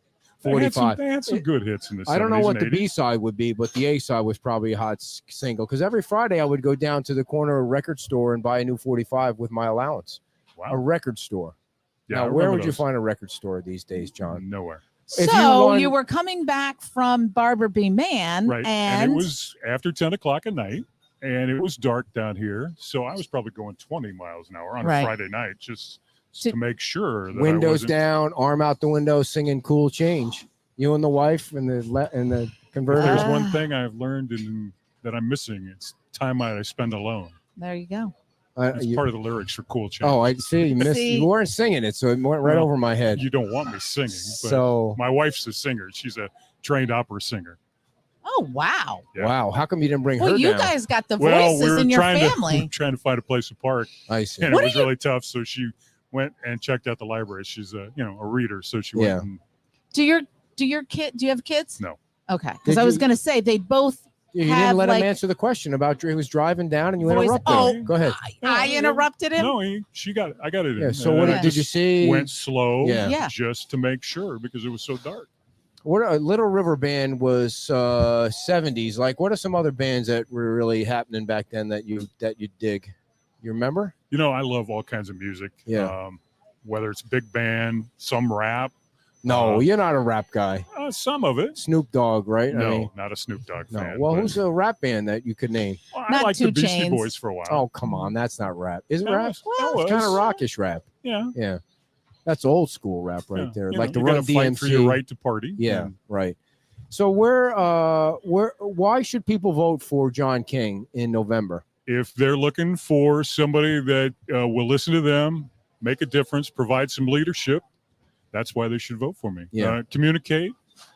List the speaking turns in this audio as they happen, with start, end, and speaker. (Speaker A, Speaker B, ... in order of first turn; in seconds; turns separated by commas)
Speaker A: 0.4-1.4, Speaker B: 0.4-2.9, Speaker A: 2.0-11.5, Speaker B: 12.1-12.8, Speaker A: 12.1-14.4, Speaker B: 14.2-14.8, Speaker A: 15.1-15.9, Speaker C: 15.1-19.3, Speaker B: 18.5-27.9, Speaker C: 24.8-25.1, Speaker A: 27.3-33.3, Speaker B: 32.9-37.4, Speaker C: 33.0-33.7, Speaker C: 37.6-38.1, Speaker A: 38.5-39.0, Speaker B: 38.7-40.5, Speaker A: 40.0-43.2, Speaker C: 40.7-41.3, Speaker B: 42.4-47.6, Speaker A: 44.2-45.0, Speaker C: 48.2-49.0, Speaker A: 49.1-50.7, Speaker C: 50.2-52.7, Speaker B: 51.2-59.4, Speaker A: 54.1-54.5, Speaker C: 54.5-54.9, Speaker A: 59.0-59.3, Speaker C: 59.9-65.1, Speaker A: 62.6-63.0, Speaker A: 64.3-68.2, Speaker C: 67.0-69.5, Speaker B: 67.4-75.3, Speaker A: 70.8-73.1, Speaker C: 71.1-71.5, Speaker C: 73.0-73.3, Speaker A: 75.8-83.9, Speaker B: 84.1-88.7, Speaker A: 85.7-85.9, Speaker A: 89.2-90.7, Speaker B: 89.2-89.7, Speaker B: 90.7-91.6, Speaker A: 91.5-92.9, Speaker B: 92.5-94.4, Speaker A: 93.7-95.8, Speaker B: 95.9-97.7, Speaker C: 96.1-97.1, Speaker A: 97.5-101.6, Speaker B: 99.0-100.3, Speaker C: 99.5-100.2, Speaker B: 101.0-101.3, Speaker A: 102.2-105.0, Speaker B: 103.3-105.9, Speaker A: 105.6-106.4, Speaker A: 106.9-111.6, Speaker B: 111.9-117.6, Speaker B: 118.3-120.5, Speaker A: 119.5-119.8